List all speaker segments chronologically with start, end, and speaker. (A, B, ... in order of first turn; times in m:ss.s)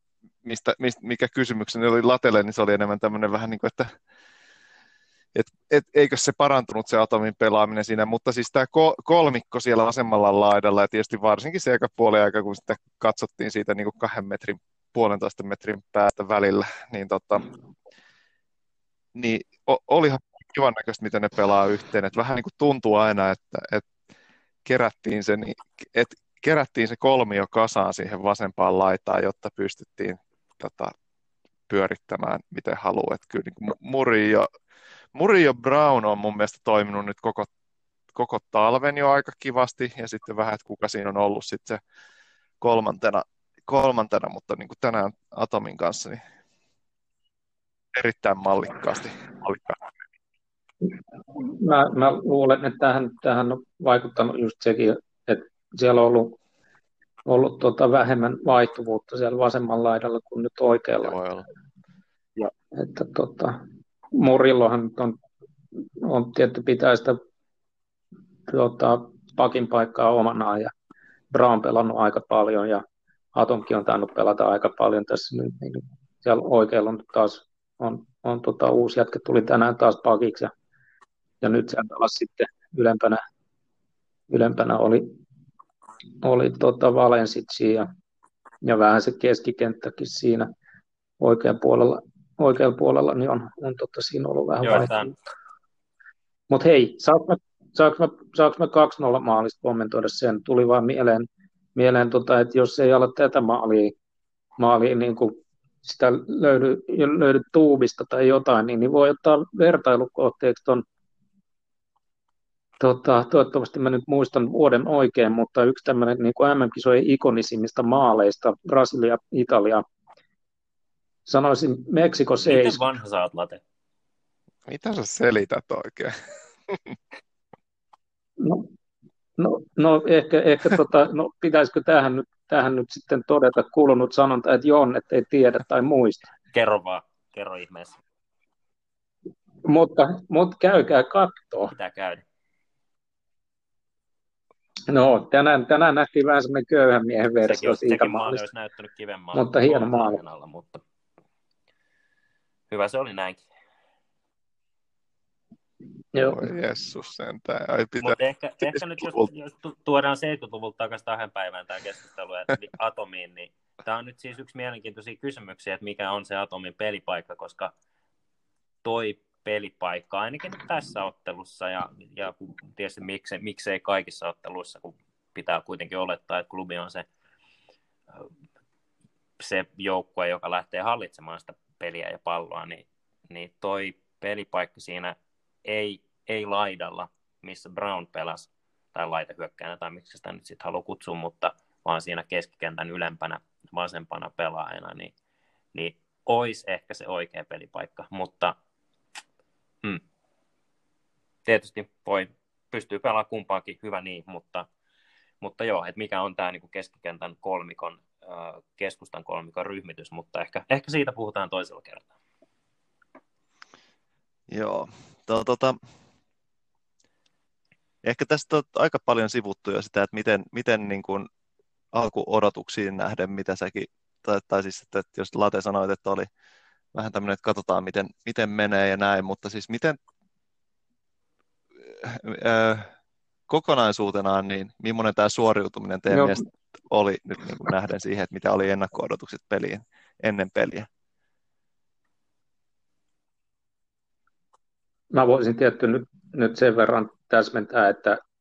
0:00.4-0:03.9 A
0:05.3-0:17.5 A
0:19.1-0:23.9 A
0:24.6-0:30.9 A
0:31.7-0:34.5 A
0:35.1-0:37.5 A
0:38.1-0:41.8 A
0:42.6-0:46.2 A
0:47.9-0:49.8 A
0:50.8-0:56.4 B
0:57.2-1:01.2 B
1:01.0-1:01.4 A
1:02.4-1:03.6 B
1:04.2-1:05.2 B
1:06.0-1:07.2 B
1:08.5-1:10.7 B
1:11.3-1:12.8 B
1:13.3-1:20.5 B
1:21.4-1:23.2 B
1:24.3-1:25.2 B
1:26.2-1:27.9 B
1:28.6-1:30.5 B
1:31.2-1:35.1 B
1:34.6-1:35.1 C
1:36.5-1:43.9 B
1:44.6-1:50.8 B
1:52.8-1:59.8 B
2:01.3-2:02.8 B
2:02.4-2:03.6 C
2:04.6-2:06.1 A
2:06.7-2:07.0 A
2:08.4-2:08.7 B
2:09.4-2:16.3 B
2:16.5-2:18.0 C
2:19.6-2:21.7 B
2:21.7-2:22.2 C
2:24.9-2:28.4 B
2:27.4-2:30.8 C
2:29.3-2:30.2 B
2:32.7-2:33.4 C
2:36.1-2:36.4 B
2:36.2-2:39.3 A
2:38.0-2:47.7 C
2:48.8-2:57.0 C
2:59.4-3:15.1 C
3:15.7-3:18.5 C
3:21.4-3:24.7 C
3:25.4-3:32.1 C
3:34.5-3:35.8 A
3:38.0-3:41.3 A
3:41.9-3:46.3 A
3:46.9-3:50.0 A
3:51.9-3:52.9 A
3:53.5-4:00.9 A
3:56.1-3:56.4 B
4:05.1-4:08.2 B